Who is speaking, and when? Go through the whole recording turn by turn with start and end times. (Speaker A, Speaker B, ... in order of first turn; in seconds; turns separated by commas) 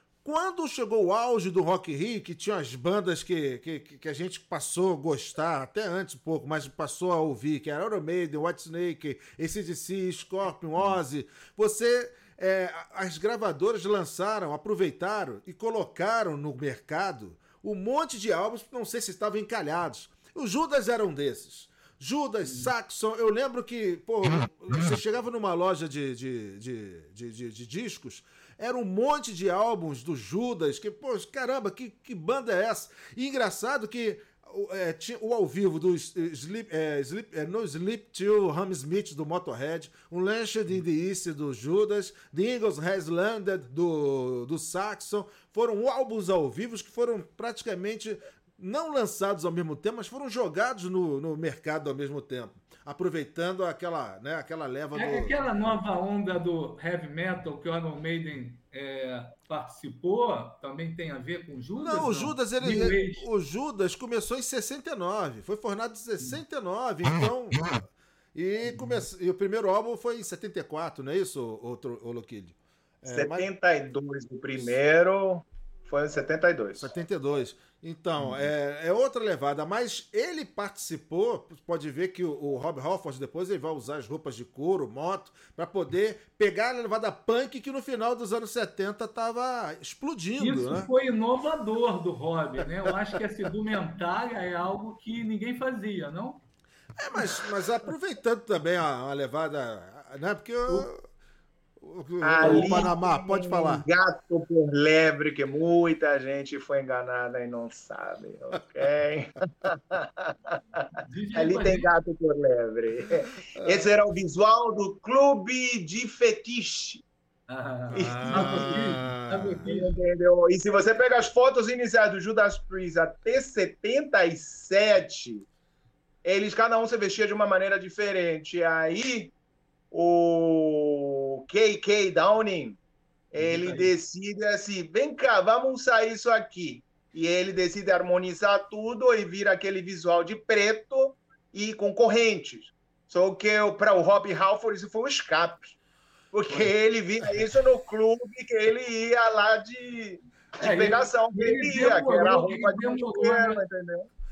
Speaker A: 0.2-55.6, Speaker B: 54.9-63.2, Speaker A: 61.8-67.8, Speaker A: 68.3-73.5, Speaker C: 73.1-76.9, Speaker A: 76.8-90.9, Speaker B: 90.4-96.4, Speaker A: 97.0-101.0, Speaker A: 101.8-103.8, Speaker C: 102.2-117.0, Speaker B: 102.4-102.9, Speaker B: 111.0-111.9, Speaker B: 117.5-120.0, Speaker C: 117.9-119.0, Speaker A: 117.9-119.6, Speaker C: 119.6-125.5, Speaker C: 126.2-129.3, Speaker C: 129.9-132.8, Speaker C: 133.3-145.8, Speaker B: 133.4-133.9, Speaker C: 146.3-154.1, Speaker B: 150.6-153.6